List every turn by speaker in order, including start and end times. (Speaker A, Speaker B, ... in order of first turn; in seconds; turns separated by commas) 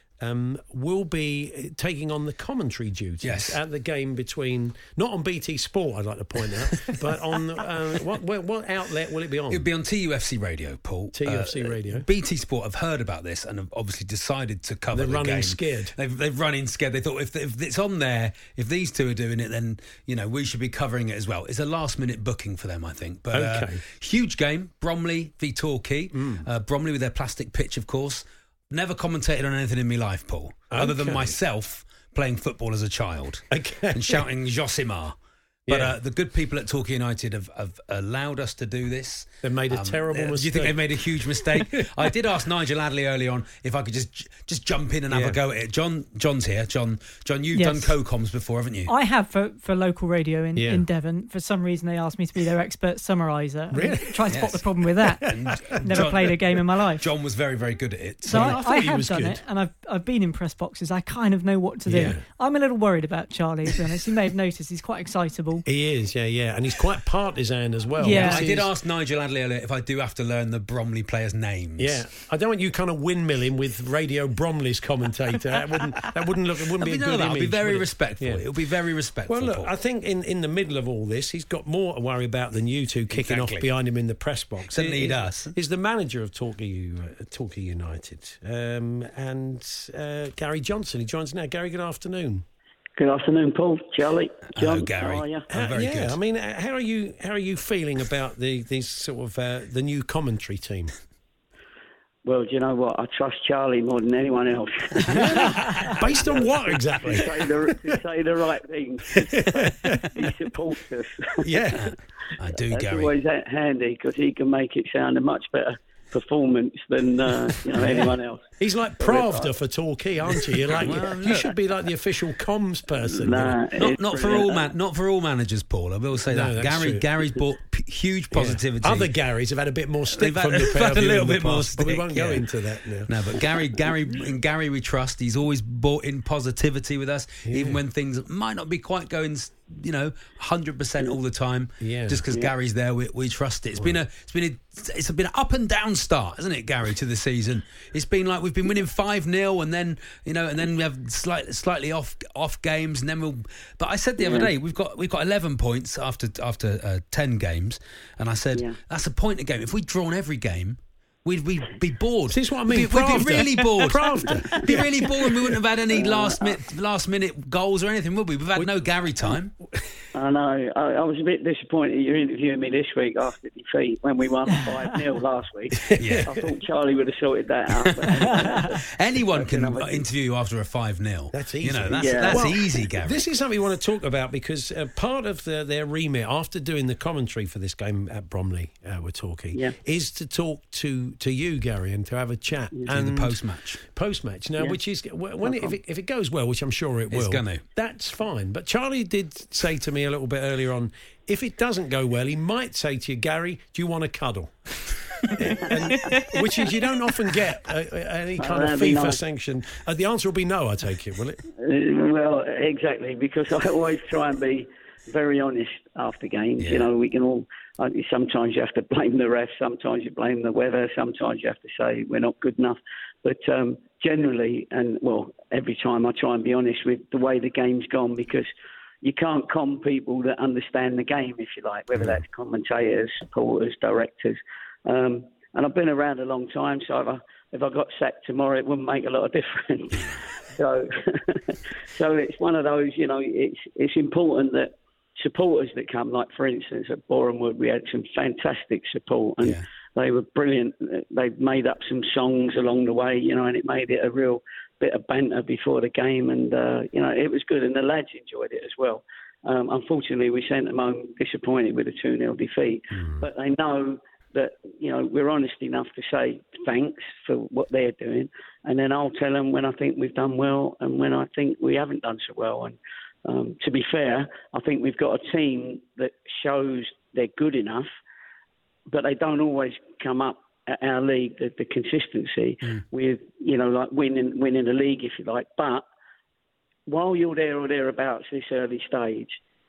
Speaker A: 0.2-9.6, Speaker B: 3.2-3.6, Speaker B: 9.5-48.9, Speaker A: 11.1-12.1, Speaker A: 14.9-15.9, Speaker A: 23.3-23.8, Speaker A: 26.1-26.5, Speaker A: 30.7-31.4, Speaker A: 33.5-34.2, Speaker A: 35.7-36.0, Speaker A: 39.4-41.8, Speaker A: 45.1-45.4, Speaker C: 47.5-48.0, Speaker C: 48.9-57.1, Speaker A: 50.5-50.9, Speaker A: 53.7-56.3, Speaker B: 54.3-54.6, Speaker B: 55.2-56.4, Speaker B: 57.0-58.6, Speaker C: 58.2-65.7, Speaker A: 58.3-59.4, Speaker A: 61.9-62.2, Speaker A: 65.7-68.7, Speaker C: 68.0-68.5, Speaker B: 68.1-72.0, Speaker A: 71.8-78.4, Speaker B: 76.8-79.7, Speaker A: 79.3-92.4, Speaker B: 83.1-83.7, Speaker B: 84.7-85.5, Speaker D: 93.0-95.5, Speaker B: 94.5-96.2, Speaker A: 95.5-100.9, Speaker D: 102.2-111.5, Speaker A: 105.1-107.3, Speaker A: 109.3-110.3, Speaker A: 111.4-111.9, Speaker B: 111.8-113.2, Speaker D: 112.7-118.5, Speaker A: 117.8-123.6, Speaker D: 119.0-119.5, Speaker B: 120.8-121.5, Speaker D: 123.1-124.7, Speaker B: 123.8-129.1, Speaker A: 126.3-127.0, Speaker A: 128.3-133.1, Speaker B: 130.2-132.5, Speaker B: 133.1-169.6, Speaker A: 137.4-137.8, Speaker A: 141.8-142.2, Speaker D: 154.2-154.5, Speaker A: 162.3-164.9, Speaker D: 164.5-164.8, Speaker D: 165.9-166.6, Speaker D: 170.1-178.8, Speaker A: 175.9-176.4, Speaker B: 175.9-176.3, Speaker B: 178.0-183.3, Speaker D: 179.3-180.0, Speaker A: 181.3-211.4, Speaker D: 181.9-182.6, Speaker B: 192.9-193.8, Speaker D: 195.4-195.8, Speaker B: 197.1-197.6, Speaker D: 208.4-209.2, Speaker D: 211.6-228.5, Speaker B: 216.6-216.9, Speaker D: 229.0-277.9, Speaker A: 262.9-263.2, Speaker D: 278.9-285.8, Speaker D: 286.9-289.3